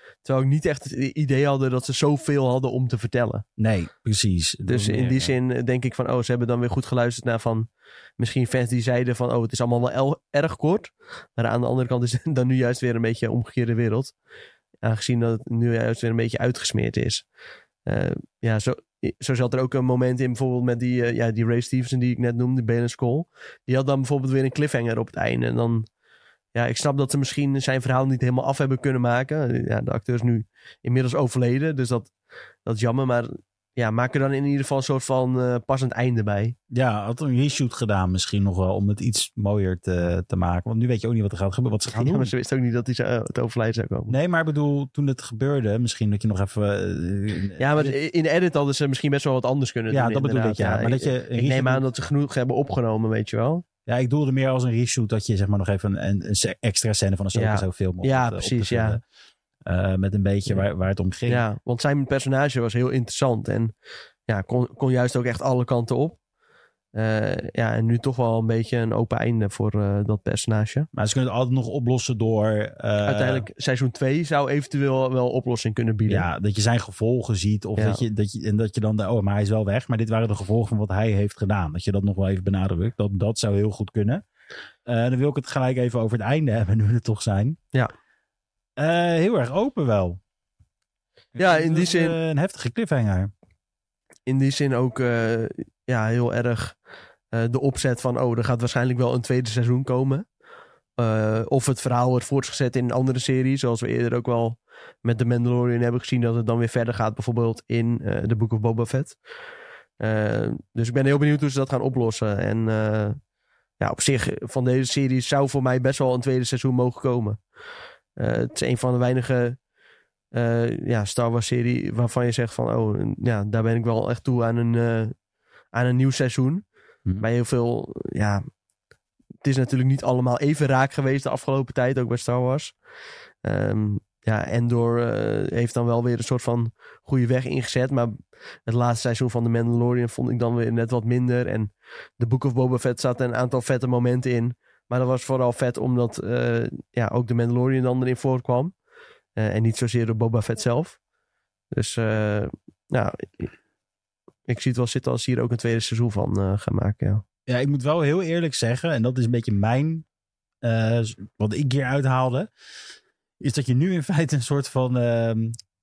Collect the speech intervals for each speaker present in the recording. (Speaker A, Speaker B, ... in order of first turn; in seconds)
Speaker A: 0.2-3.4, 4.7-14.1, 14.8-17.2, 17.9-25.9, 26.5-32.1, 32.6-36.5, 41.9-44.1, 47.6-53.6, 57.3-59.0, 61.3-63.7, 64.3-66.2, 66.9-70.9, 73.1-76.2, 77.8-78.0, 91.4-92.2, 94.2-96.7, 97.3-100.2, 101.0-109.2, 110.0-113.2, 113.8-117.4, 118.2-119.6, 120.3-125.1, 125.7-126.6, 127.2-128.4, 129.4-132.7, 133.4-148.7, 149.4-151.0, 151.7-153.5, 154.5-157.2
Speaker B: 3.6-5.3, 36.7-42.3, 44.1-47.9, 49.9-51.8, 53.9-59.0, 59.6-61.4, 70.9-73.5, 76.1-84.2, 84.8-87.6, 88.8-90.2, 91.3-93.3, 157.5-160.1, 160.6-162.5, 163.4-165.6